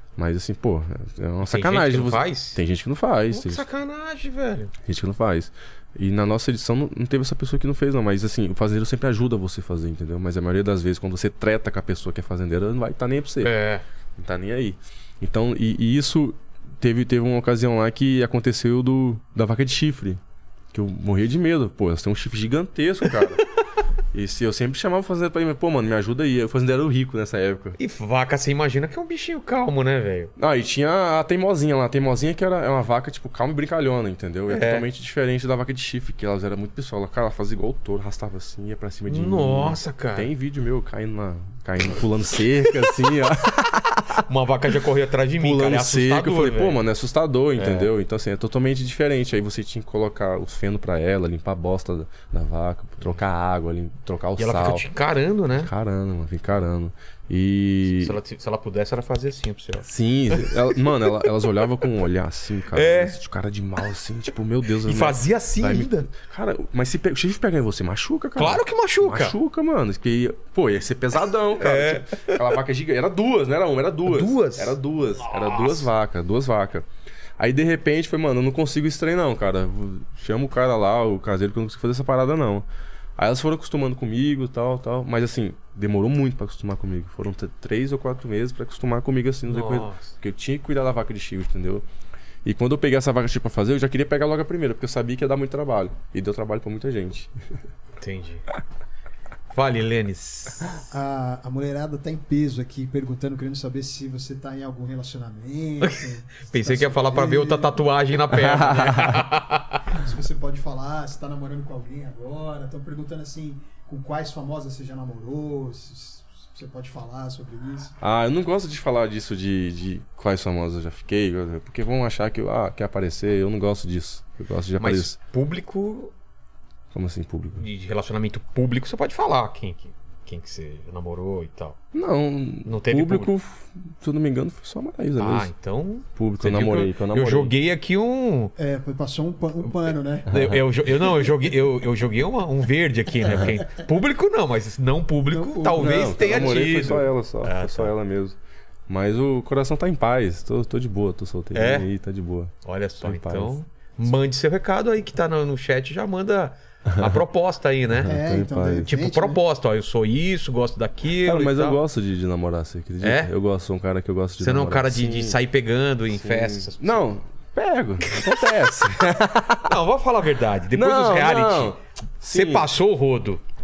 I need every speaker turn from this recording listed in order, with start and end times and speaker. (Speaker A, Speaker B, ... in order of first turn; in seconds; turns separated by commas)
Speaker A: 0.2-3.6, Speaker B: 1.4-2.6, Speaker B: 3.3-4.7, Speaker A: 4.8-13.5, Speaker B: 13.4-13.8, Speaker A: 14.2-20.2, Speaker A: 20.7-23.4, Speaker A: 24.1-27.8, Speaker B: 27.8-30.3, Speaker A: 30.4-44.2, Speaker B: 34.5-34.9, Speaker B: 39.1-40.3, Speaker B: 44.2-46.8, Speaker A: 45.4-54.9, Speaker B: 47.6-47.9, Speaker B: 54.4-55.7, Speaker A: 55.5-58.2, Speaker B: 58.0-61.0, Speaker A: 59.8-76.9, Speaker B: 62.7-63.2, Speaker B: 64.8-66.1, Speaker B: 68.4-69.4, Speaker B: 71.6-72.5, Speaker B: 74.1-75.9, Speaker A: 77.4-91.8, Speaker B: 89.5-90.2, Speaker A: 92.4-97.3, Speaker B: 98.0-98.5, Speaker B: 99.5-100.7, Speaker C: 100.9-107.8, Speaker B: 105.8-110.0, Speaker A: 108.3-109.2, Speaker C: 109.9-118.0, Speaker A: 118.0-125.2, Speaker B: 124.8-126.1, Speaker A: 126.9-127.7, Speaker B: 127.5-131.8, Speaker A: 131.9-135.5, Speaker B: 132.7-133.3, Speaker B: 135.2-138.5, Speaker A: 136.2-137.5, Speaker C: 138.6-140.3, Speaker B: 140.3-147.9, Speaker A: 140.3-140.6, Speaker C: 145.3-146.9, Speaker A: 145.8-153.6, Speaker B: 151.5-151.9, Speaker B: 152.6-158.2, Speaker A: 156.9-157.2, Speaker A: 158.0-158.9, Speaker C: 158.1-159.4, Speaker B: 158.8-161.8, Speaker A: 161.2-165.4, Speaker B: 163.0-163.3, Speaker B: 164.4-167.0, Speaker A: 166.1-169.8, Speaker B: 168.0-168.6, Speaker B: 169.6-173.4, Speaker A: 170.7-172.7